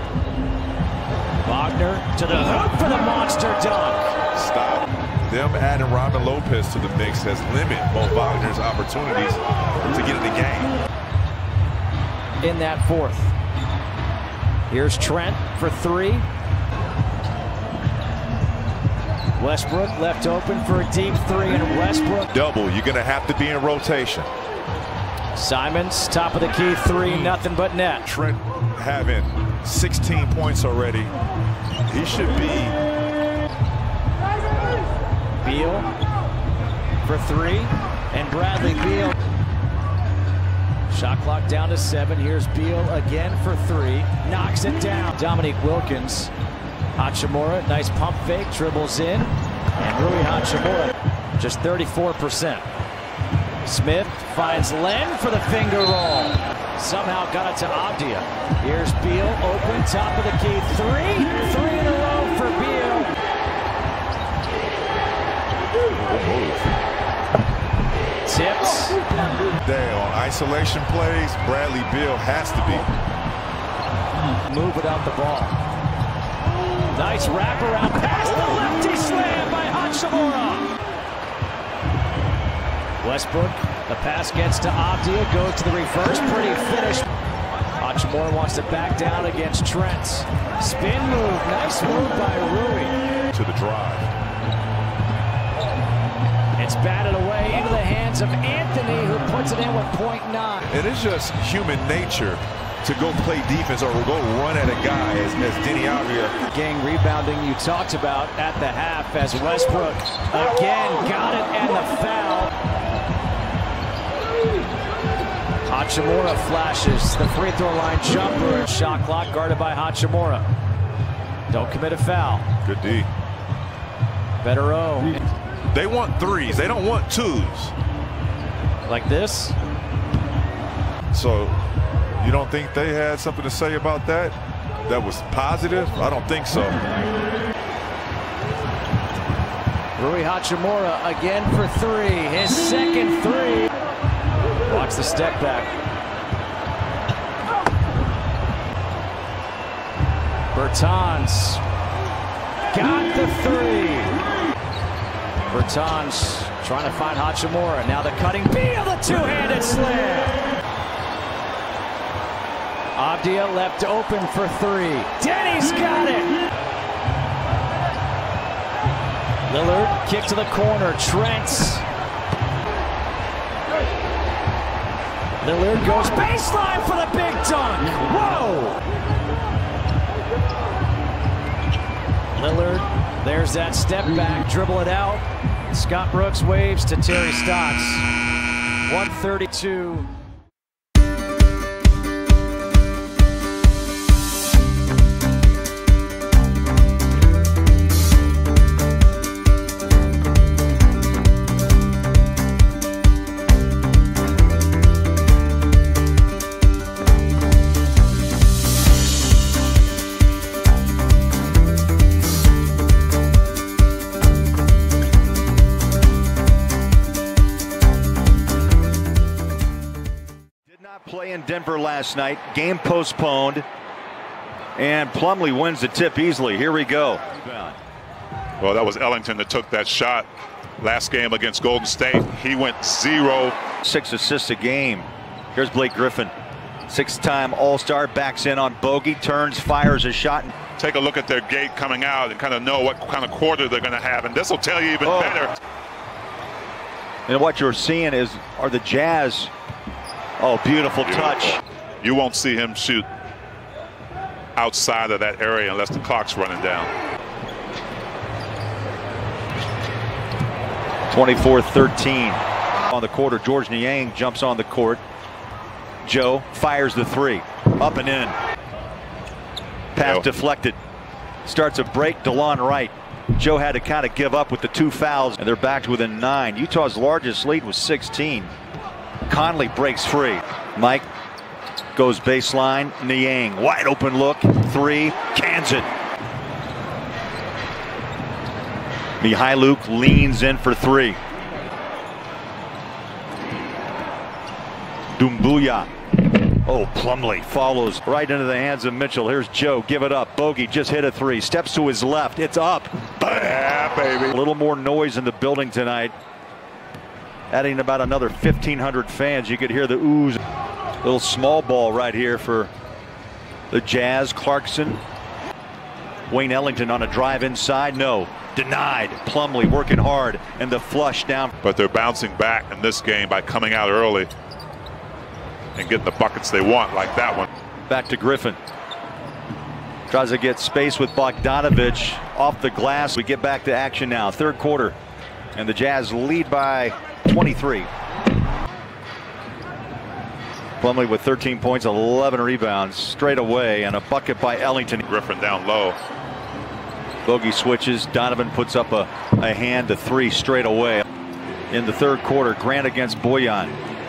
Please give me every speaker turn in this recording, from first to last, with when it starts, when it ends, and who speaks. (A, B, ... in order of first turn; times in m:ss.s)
0:01.4-0:04.0 A
0:04.3-0:10.7 B
0:12.4-0:13.3 A
0:14.7-0:16.2 A
0:19.4-0:22.3 A
0:22.3-0:24.3 B
0:25.3-0:28.1 A
0:27.0-0:27.4 B
0:28.1-0:31.1 B
0:31.9-0:32.8 B
0:35.4-0:35.9 A
0:37.0-0:39.1 A
0:40.9-0:46.3 A
0:47.0-0:52.6 A
0:53.6-1:03.1 A
1:05.9-1:06.6 B
1:08.2-1:09.0 A
1:09.6-1:12.8 B
1:14.5-1:15.5 A
1:16.9-1:20.7 A
1:23.0-1:27.1 A
1:27.8-1:33.0 A
1:33.3-1:34.1 B
1:36.6-1:40.6 A
1:40.7-1:46.3 B
1:46.5-1:52.5 A
1:55.7-2:00.5 A
2:01.5-2:02.4 A
2:02.6-2:03.1 B
2:04.4-2:05.2 A
2:05.7-2:07.7 B
2:08.9-2:09.6 A
2:11.1-2:11.6 B
2:12.2-2:14.3 B
2:14.9-2:16.8 B
2:20.0-2:23.7 A
2:24.7-2:25.7 A
2:30.5-2:31.6 A
2:32.7-2:34.2 A
2:35.5-2:40.4 A
2:43.0-2:46.4 A
2:49.5-2:51.8 A
2:55.4-2:58.8 A
3:02.3-3:08.1 A
3:08.8-3:10.1 A
3:40.7-3:43.6 C
3:44.8-3:47.8 C
3:48.6-3:50.3 D
3:50.8-3:53.6 D
3:53.8-3:56.3 C
3:56.9-4:00.5 C
4:00.8-4:05.5 D
4:05.0-4:05.4 C
4:07.3-4:09.5 C
4:10.4-4:11.6 C
4:11.0-4:13.0 D
4:14.6-4:16.9 D
4:21.1-4:25.0 C
4:26.0-4:28.4 C
4:29.9-4:30.8 C
4:30.0-4:30.2 D
4:31.4-4:38.5 C
4:39.3-4:41.0 C
4:41.9-4:45.9 C
4:49.2-4:51.2 C
4:55.2-4:55.9 C
4:56.6-5:03.1 C
5:03.2-5:04.3 D
5:04.3-5:06.1 C
5:07.5-5:10.4 C
5:11.0-5:12.7 C
5:13.7-5:15.0 C
5:16.3-5:21.5 C
5:21.6-5:24.3 D
5:25.8-5:27.5 D
5:27.9-5:28.6 C
5:30.1-5:35.0 C
5:35.5-5:37.9 C
5:40.8-5:45.0 C
5:45.0-5:46.0 D
5:47.2-5:51.0 C
5:51.7-5:53.8 C